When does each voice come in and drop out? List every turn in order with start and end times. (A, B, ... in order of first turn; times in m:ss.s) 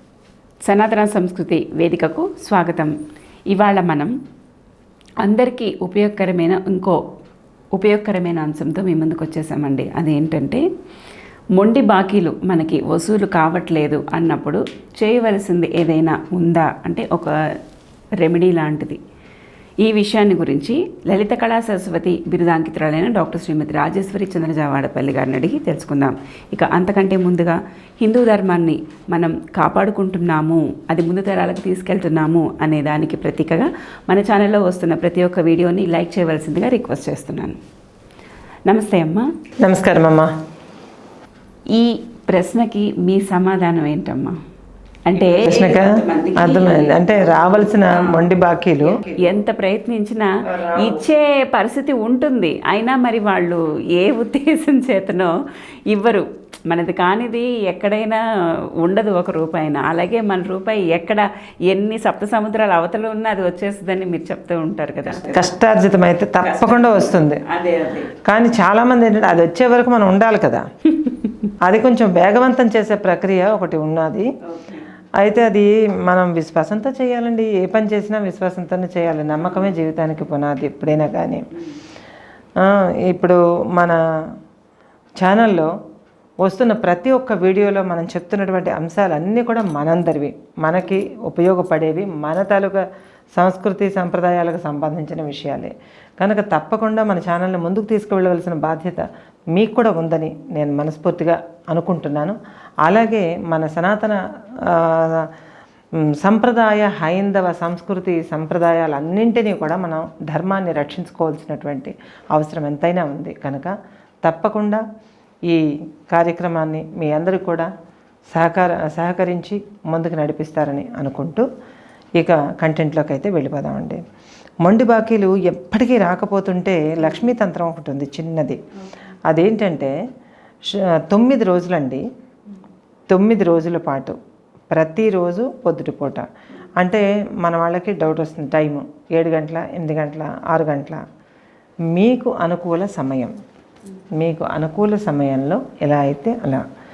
0:00.6-0:03.0 A
0:03.5-0:04.1 A
0:05.2-0:07.0 A
0:07.8-0:10.6 A
0:11.6-0:17.3 A
0:18.2-0:19.0 A
0:19.8-0:37.6 A
0:38.7-0:39.3 A
0:39.6-0:40.3 B
0:41.7-0:44.4 A
0:45.1-0:48.3 A
0:45.2-0:49.4 B
0:48.9-0:55.3 A
0:50.5-0:51.0 B
0:55.9-0:58.2 A
0:58.8-1:05.5 A
1:05.1-1:07.4 B
1:06.4-1:08.1 A
1:08.2-1:10.6 B
1:11.0-1:11.4 A
1:11.6-1:14.3 B
1:14.5-1:14.9 A
1:15.2-1:21.4 B
1:22.6-1:24.0 B
1:25.2-1:25.7 B
1:26.4-1:32.8 B
1:33.4-1:45.3 B
1:46.1-1:53.7 B
1:54.2-1:54.8 B
1:55.5-1:57.7 B
1:58.3-2:01.4 B
2:02.2-2:04.0 B
2:04.6-2:08.6 B
2:09.3-2:10.0 B
2:10.7-2:12.0 B
2:13.1-2:14.2 B
2:14.7-2:21.0 B
2:21.9-2:23.3 B
2:24.2-2:26.6 B